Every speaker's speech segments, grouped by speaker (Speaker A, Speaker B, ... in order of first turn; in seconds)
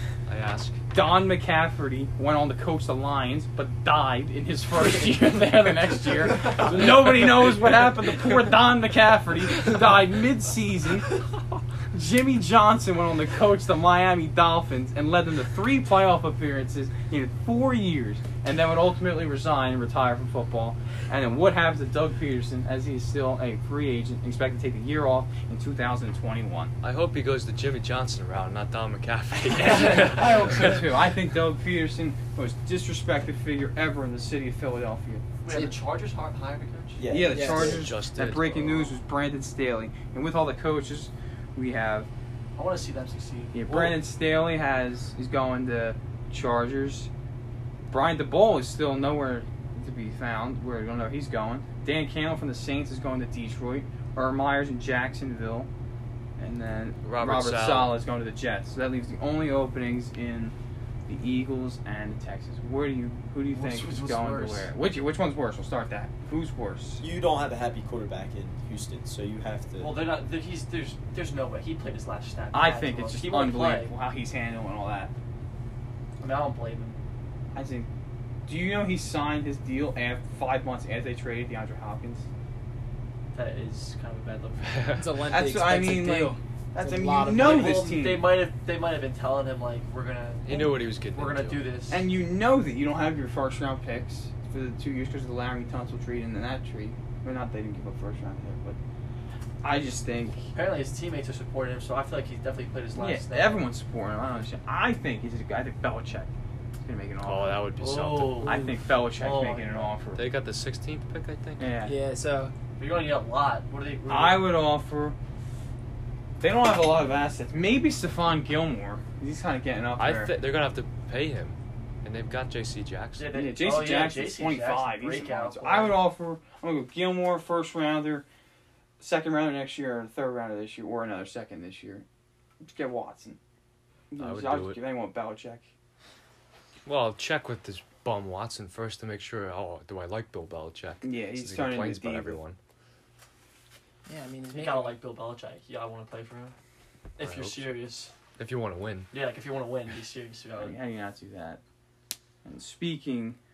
Speaker A: 0.3-0.8, 26.8-30.8, 37.5-38.6, 57.0-58.0, 84.6-85.3, 90.5-91.7, 107.2-108.6, 110.2-111.7, 120.0-123.3, 134.2-134.8, 136.8-142.6, 147.2-147.8, 148.4-149.1
Speaker B: 0.9-11.1, 11.9-26.7, 29.5-35.2, 37.1-42.1, 43.5-47.1, 47.9-55.7, 56.4-60.5, 61.1-67.0, 72.5-75.1, 77.5-77.9, 78.5-82.3, 85.3-88.3, 91.9-98.8, 99.6-100.5, 103.0-107.6, 108.5-110.2, 111.6-111.9, 114.1-115.2, 116.4-120.3, 123.3-128.2, 129.0-132.1, 132.6-133.4, 134.1-135.7, 141.0-142.4, 150.6-151.6, 152.4-153.4
Speaker C: 35.4-37.0, 42.6-44.0, 63.5-64.7, 69.8-73.9, 76.2-77.0, 83.3-84.9, 87.3-92.1, 100.5-103.7, 107.8-110.0, 112.8-114.5, 123.2-126.0, 144.5-146.6, 147.2-148.1, 149.1-150.8
Speaker D: 35.5-35.8, 37.3-37.7, 85.0-87.8, 111.8-112.5, 144.1-145.0
Speaker E: 37.0-37.9, 67.0-70.0